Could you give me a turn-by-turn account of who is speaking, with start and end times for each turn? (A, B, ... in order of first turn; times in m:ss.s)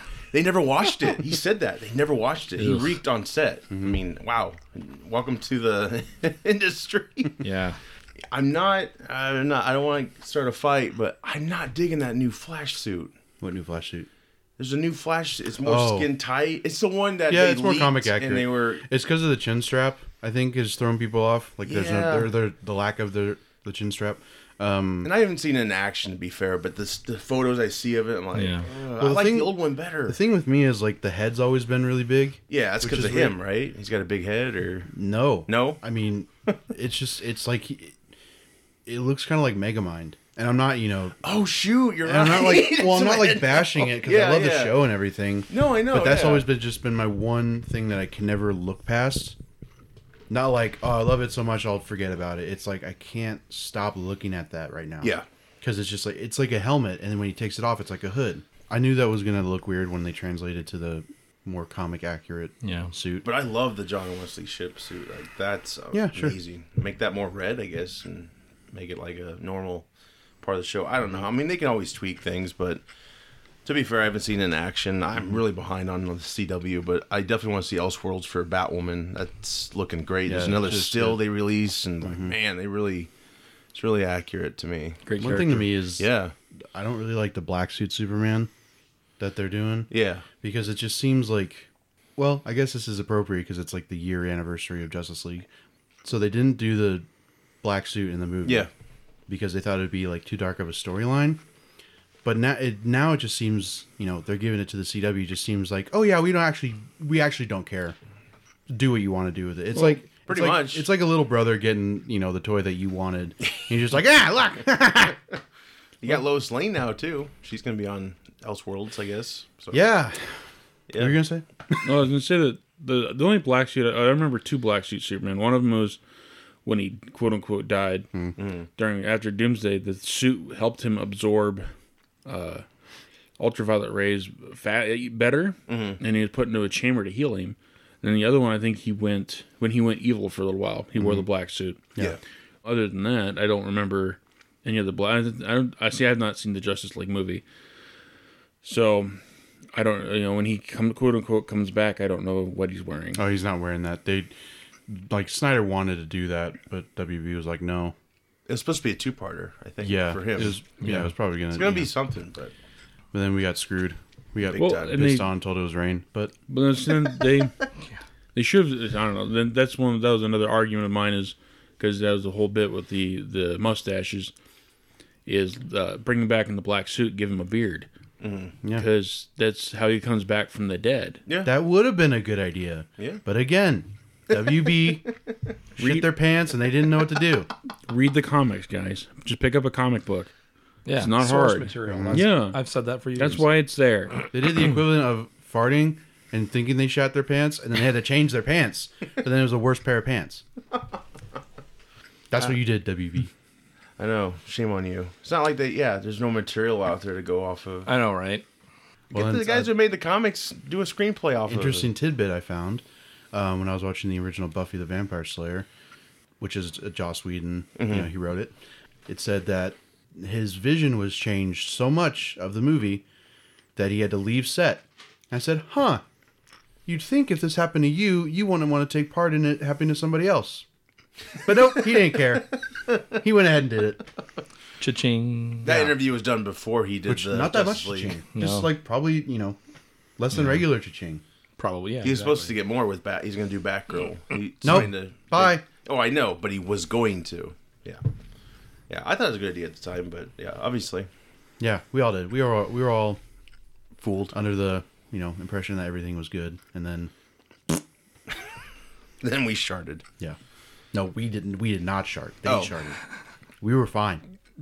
0:00.3-0:07.4 A
0:02.6-0:03.0 B
0:03.7-0:04.0 C
0:07.4-0:07.8 B
0:08.3-0:13.1 A
0:13.4-0:14.1 C
0:14.6-0:18.8 A
0:15.6-0:16.1 C
0:17.3-0:25.1 C
0:21.6-0:22.3 A
0:25.0-0:30.2 A
0:28.3-0:28.7 B
0:29.0-0:33.4 C
0:32.5-0:34.9 A
0:34.9-0:38.0 C
0:35.5-0:35.8 A
0:38.8-0:41.2 C
0:41.2-0:44.8 A
0:42.0-0:49.4 C
0:45.5-0:46.5 A
0:50.3-1:03.2 C
1:02.6-1:02.9 B
1:03.2-1:09.9 A
1:05.9-1:06.4 C
1:10.4-1:12.8 A
1:13.6-1:23.1 A
1:20.2-1:21.2 C
1:22.0-1:22.3 C
1:23.7-1:25.0 A
1:25.0-1:25.7 B
1:25.2-1:26.1 C
1:26.0-1:26.3 A
1:26.7-1:28.5 C
1:29.2-1:29.9 C
1:29.9-1:30.2 A
1:30.4-1:35.5 C
1:36.0-1:37.0 C
1:37.6-1:38.7 C
1:38.4-1:38.7 A
1:39.3-1:41.4 C
1:42.2-1:48.0 C
1:48.7-1:55.2 C
1:49.7-1:50.9 A
1:56.0-1:59.9 A
1:59.7-2:00.4 C
2:00.9-2:01.2 A
2:01.0-2:01.9 C
2:01.8-2:06.0 D
2:06.6-2:08.1 D
2:08.4-2:08.7 A
2:08.8-2:11.7 D
2:12.2-2:12.6 D
2:13.4-2:22.0 D
2:15.7-2:16.0 A
2:21.0-2:21.2 C
2:22.6-2:27.4 D
2:28.6-2:29.2 D
2:29.7-2:33.2 D
2:33.1-2:34.3 C
2:34.9-2:37.9 C
2:38.5-2:40.6 A
2:39.8-2:41.9 C
2:40.8-2:41.1 B
2:41.5-2:42.5 A
2:43.1-2:46.3 C
2:44.4-2:45.0 A
2:44.5-2:45.3 D
2:46.5-2:47.6 D
2:48.3-2:54.3 D
2:55.2-2:57.9 D
2:58.2-2:58.5 A
2:58.7-3:01.2 D
3:01.3-3:01.5 A
3:01.4-3:05.1 C
3:04.3-3:05.0 A
3:05.8-3:07.5 C
3:05.8-3:06.1 D
3:07.9-3:10.3 D
3:10.8-3:13.5 B
3:10.9-3:12.6 D
3:11.9-3:12.2 C
3:13.1-3:14.2 D
3:14.3-3:20.4 C
3:22.3-3:23.3 C
3:24.0-3:27.9 A
3:27.8-3:28.4 B
3:29.1-3:29.7 C
3:29.1-3:31.9 A
3:31.5-3:35.7 C
3:36.4-3:38.6 C
3:37.8-3:38.1 A
3:39.1-3:43.0 C
3:43.8-3:46.0 C
3:46.8-3:50.6 C
3:51.4-3:52.5 C
3:53.1-3:54.0 C
3:54.8-3:55.7 B
3:55.6-3:58.2 A
3:55.7-3:56.0 C
3:57.0-3:59.6 C
3:58.3-3:58.7 B
4:00.2-4:01.2 C
4:00.3-4:00.7 B
4:01.6-4:02.5 B
4:02.0-4:08.0 A
4:04.6-4:05.6 C
4:08.9-4:11.1 A
4:11.6-4:13.2 C
4:14.0-4:14.4 A
4:14.3-4:17.1 C
4:19.2-4:20.0 A
4:20.9-4:23.0 C
4:22.4-4:22.7 A
4:23.6-4:24.2 C